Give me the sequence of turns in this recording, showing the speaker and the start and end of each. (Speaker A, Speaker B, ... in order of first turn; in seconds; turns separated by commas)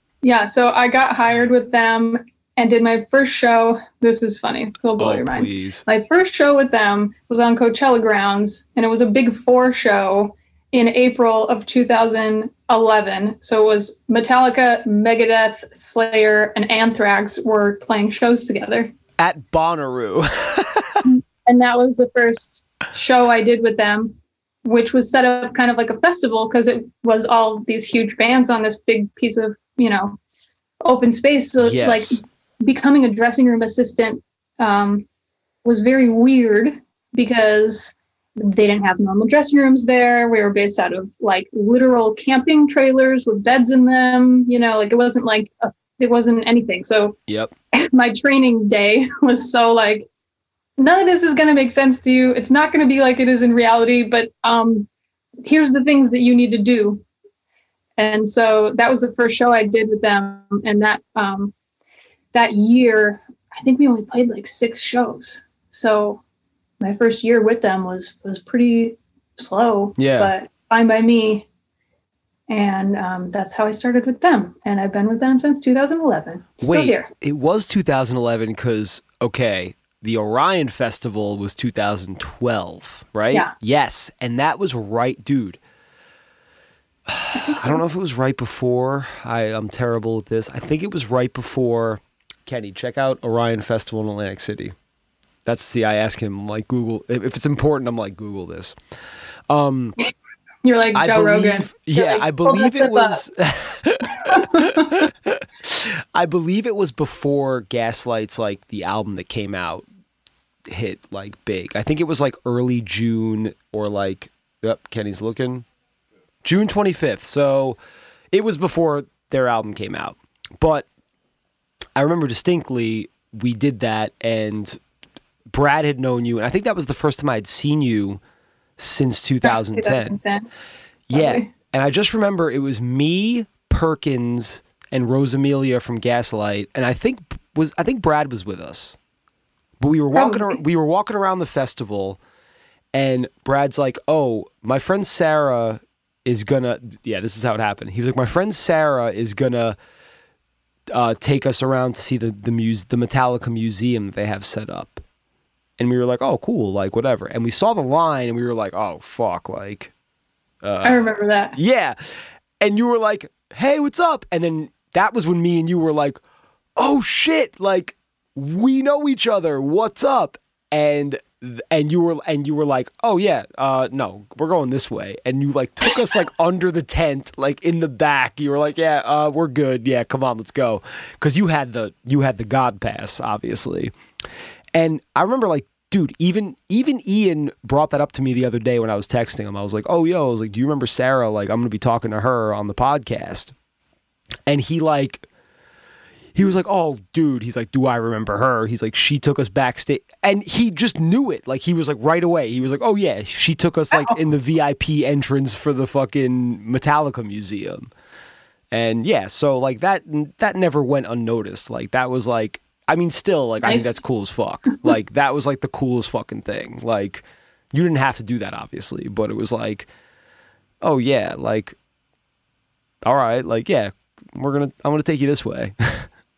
Speaker A: 0.2-18.9, Speaker B: 5.0-5.8, Speaker B: 19.2-21.1, Speaker A: 21.0-30.2, Speaker A: 30.8-35.1, Speaker B: 31.6-32.2, Speaker A: 35.6-47.2, Speaker B: 47.3-47.5, Speaker A: 47.7-50.1, Speaker A: 50.8-54.9, Speaker A: 55.4-57.0, Speaker A: 58.0-61.5, Speaker A: 62.3-66.2, Speaker A: 66.8-71.5, Speaker B: 70.0-70.3, Speaker A: 72.5-77.1, Speaker B: 76.6-85.6, Speaker B: 87.1-94.7, Speaker A: 87.3-87.8, Speaker B: 95.4-98.8, Speaker B: 99.5-100.0, Speaker A: 100.6-103.2, Speaker B: 100.9-109.8, Speaker A: 104.2-105.0, Speaker B: 110.7-115.6, Speaker B: 116.4-117.8, Speaker B: 118.3-120.9, Speaker B: 122.0-124.8, Speaker B: 125.5-128.2, Speaker B: 128.8-130.2, Speaker A: 129.4-130.5, Speaker B: 131.1-139.0, Speaker A: 131.1-131.5, Speaker B: 139.8-142.2, Speaker A: 140.1-140.6, Speaker B: 142.9-149.8, Speaker B: 150.9-155.0, Speaker B: 155.8-159.9, Speaker B: 160.6-166.2, Speaker A: 160.8-161.6, Speaker B: 166.8-183.9, Speaker B: 184.7-193.5, Speaker B: 194.5-195.2, Speaker B: 196.3-207.9, Speaker B: 208.7-219.9, Speaker A: 213.6-214.0, Speaker B: 220.8-221.8, Speaker B: 223.0-226.1